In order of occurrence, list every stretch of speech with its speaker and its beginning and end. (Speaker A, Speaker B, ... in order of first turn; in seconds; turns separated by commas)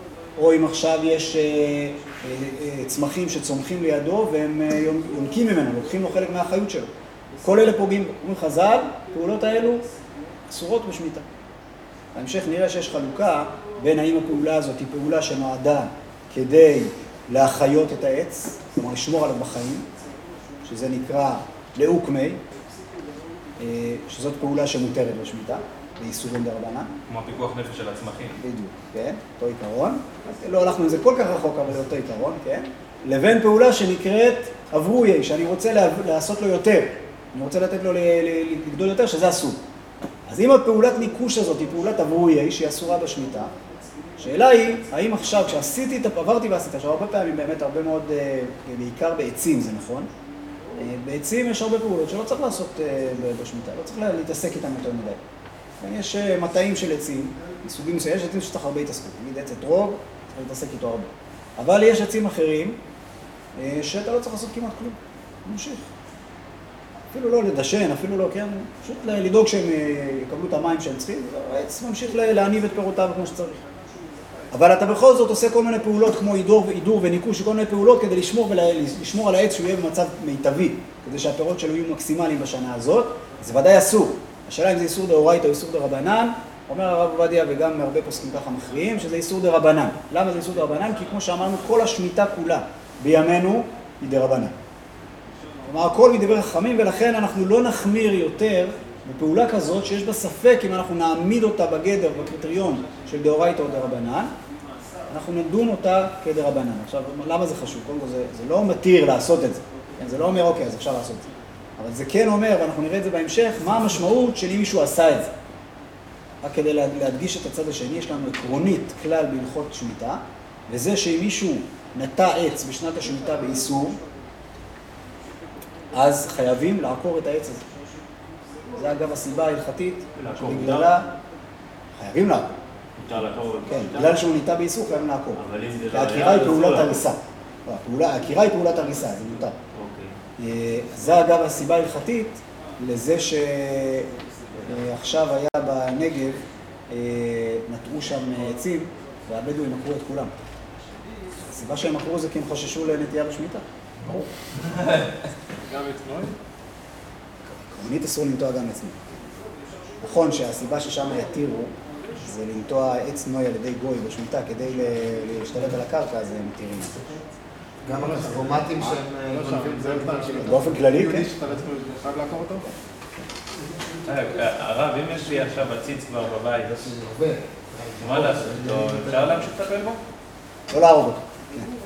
Speaker A: 0.4-6.9, Speaker A: 7.4-9.9, Speaker A: 10.5-11.2, Speaker A: 12.2-19.9, Speaker A: 20.6-22.4, Speaker A: 23.6-26.9, Speaker B: 27.1-28.4, Speaker A: 28.4-39.6, Speaker A: 40.3-43.5, Speaker A: 44.2-50.1, Speaker A: 50.8-55.2, Speaker A: 55.8-62.8, Speaker A: 63.6-65.9, Speaker A: 67.1-73.6, Speaker A: 74.5-94.5, Speaker A: 95.7-104.3, Speaker A: 105.1-115.3, Speaker A: 116.4-124.0, Speaker A: 125.9-127.6, Speaker A: 128.8-131.1, Speaker C: 130.2-130.9, Speaker A: 132.0-132.6, Speaker C: 133.0-134.3, Speaker A: 133.7-139.6, Speaker C: 135.4-137.0, Speaker C: 139.7-140.2, Speaker A: 140.4-146.4, Speaker A: 146.9-150.3, Speaker A: 151.4-154.2, Speaker B: 154.1-155.1, Speaker D: 155.6-156.4, Speaker A: 157.5-159.2, Speaker A: 160.0-167.2, Speaker E: 167.8-171.3, Speaker D: 168.1-168.4, Speaker A: 168.7-169.0, Speaker D: 169.2-172.7, Speaker A: 170.4-171.3, Speaker B: 174.0-176.8, Speaker E: 176.6-179.4, Speaker B: 178.0-180.0, Speaker A: 180.7-181.7